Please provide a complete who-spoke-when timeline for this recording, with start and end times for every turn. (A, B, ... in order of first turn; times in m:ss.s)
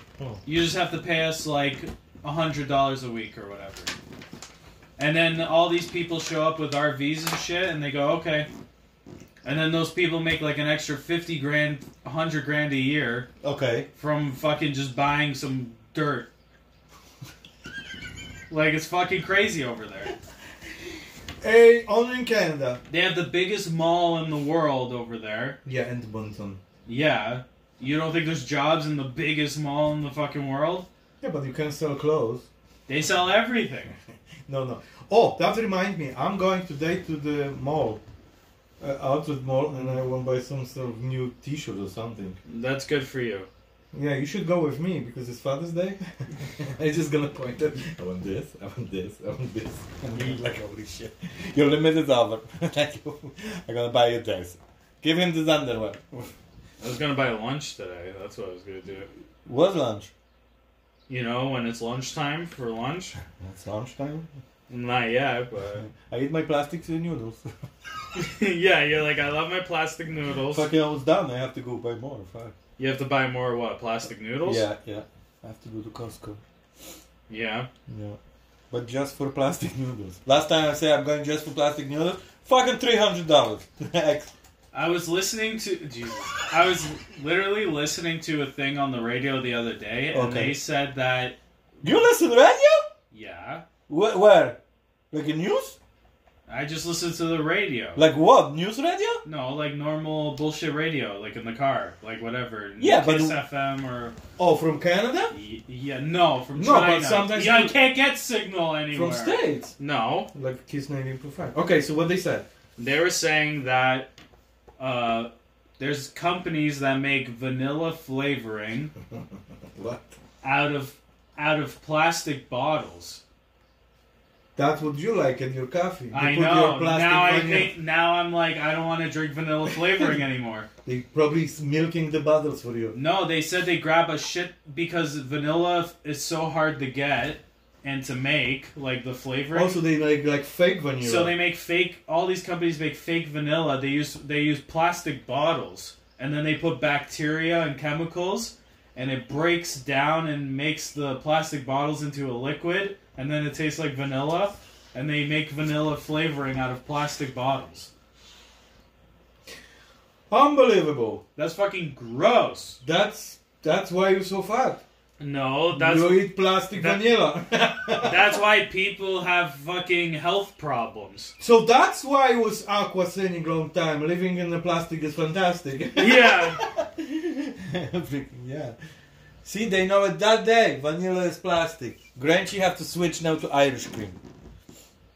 0:00.4-0:03.9 A
0:05.0-0:08.5 A
0:09.4-0:13.3 A
0:13.4-0:13.9 B
0:13.9-0:16.3 A
0:18.5-0:20.1 A
0:21.4-0:22.8 B
0:22.9-0:25.6 A
0:25.6-0:26.6 B
0:26.8-0:30.9 A
0:31.2-0:32.5 B
0:32.9-0:33.9 A
0:34.5-0:38.0 B
0:38.8-0:42.4 B
0:42.4-0:43.5 A
0:43.9-0:56.3 B
0:50.1-0:50.4 A
0:56.8-0:59.1 A
0:59.4-1:00.1 B
1:01.1-1:03.1 A
1:03.4-1:04.3 B
1:04.7-1:05.9 A
1:05.8-1:07.5 B
1:08.1-1:10.7 A
1:10.5-1:12.5 B
1:12.8-1:14.6 A
1:14.4-1:16.4 B
1:17.3-1:17.7 A
1:17.9-1:18.2 B
1:18.7-1:24.3 B
1:24.7-1:32.0 A
1:30.1-1:30.6 B
1:31.8-1:32.9 B
1:33.1-1:33.6 A
1:33.9-1:34.6 B
1:35.1-1:35.8 B
1:36.5-1:38.0 A
1:37.9-1:39.2 B
1:39.2-1:44.2 A
1:42.8-1:43.4 B
1:44.4-1:45.3 B
1:45.3-1:50.3 A
1:46.5-1:47.8 B
1:48.9-1:49.7 B
1:50.3-1:52.4 B
1:52.8-1:54.1 A
1:54.8-1:58.9 A
1:59.7-2:00.2 B
2:00.4-2:03.2 A
2:04.6-2:07.7 B
2:06.1-2:10.7 A
2:10.8-2:12.9 B
2:12.9-2:19.8 A
2:19.5-2:21.3 B
2:21.0-2:37.9 A
2:40.3-2:41.2 B
2:41.4-2:42.8 A
2:42.8-2:44.8 B
2:45.2-2:47.0 A
2:45.7-2:48.4 B
2:48.0-2:51.3 A
2:51.4-2:58.7 B
2:56.0-2:56.6 A
2:59.4-3:04.2 B